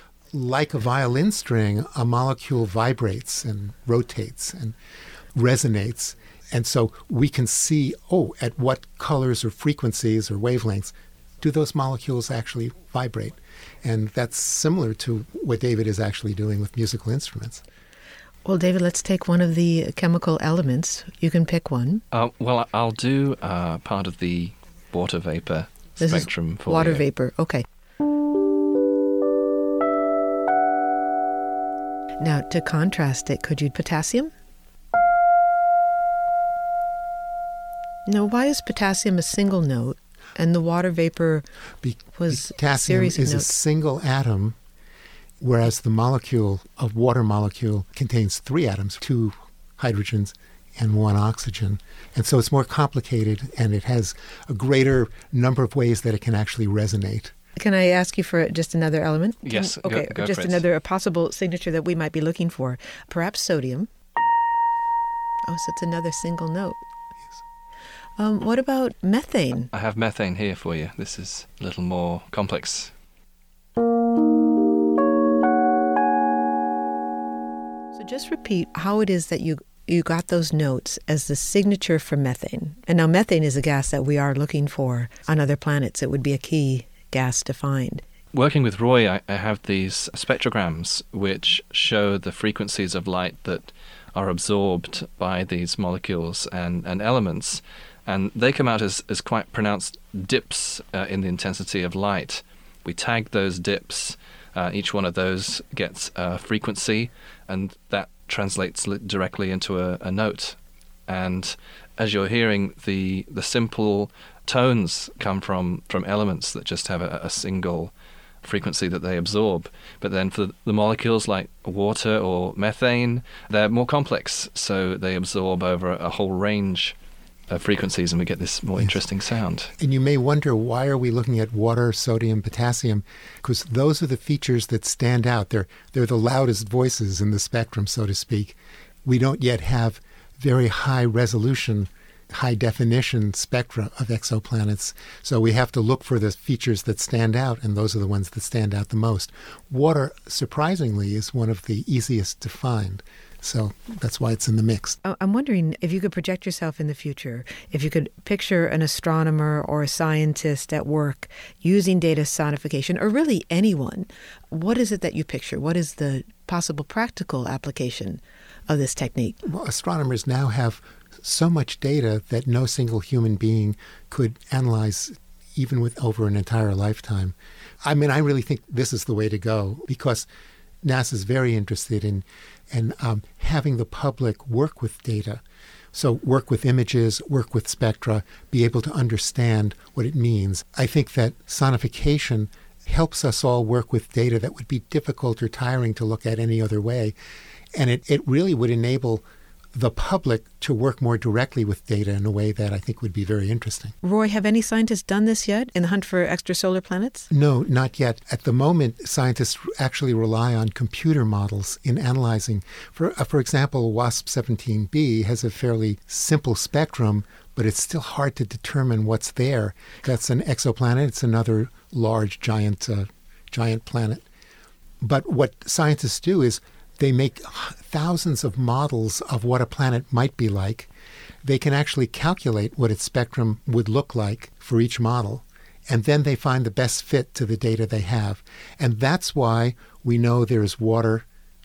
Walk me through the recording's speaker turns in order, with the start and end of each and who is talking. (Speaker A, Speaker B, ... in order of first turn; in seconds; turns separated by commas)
Speaker A: 0.3-4.8, Speaker A: 5.3-17.6, Speaker B: 18.4-22.0, Speaker C: 22.1-27.1, Speaker B: 26.0-27.6, Speaker B: 32.2-34.3, Speaker B: 38.1-41.5, Speaker A: 41.8-44.6, Speaker B: 42.2-43.5, Speaker A: 45.4-57.3, Speaker B: 57.6-63.9, Speaker C: 59.4-60.6, Speaker B: 65.5-66.8, Speaker B: 68.2-69.7, Speaker C: 69.7-72.9, Speaker B: 77.9-88.0, Speaker C: 88.3-110.6, Speaker C: 111.1-117.9, Speaker C: 118.4-127.0, Speaker C: 127.5-129.7, Speaker A: 129.8-155.0, Speaker B: 155.0-169.4, Speaker A: 169.4-180.3, Speaker A: 180.8-185.4, Speaker A: 185.9-197.1, Speaker A: 197.7-203.9, Speaker B: 204.0-207.3, Speaker A: 207.3-224.2, Speaker A: 225.0-230.9, Speaker A: 231.4-241.3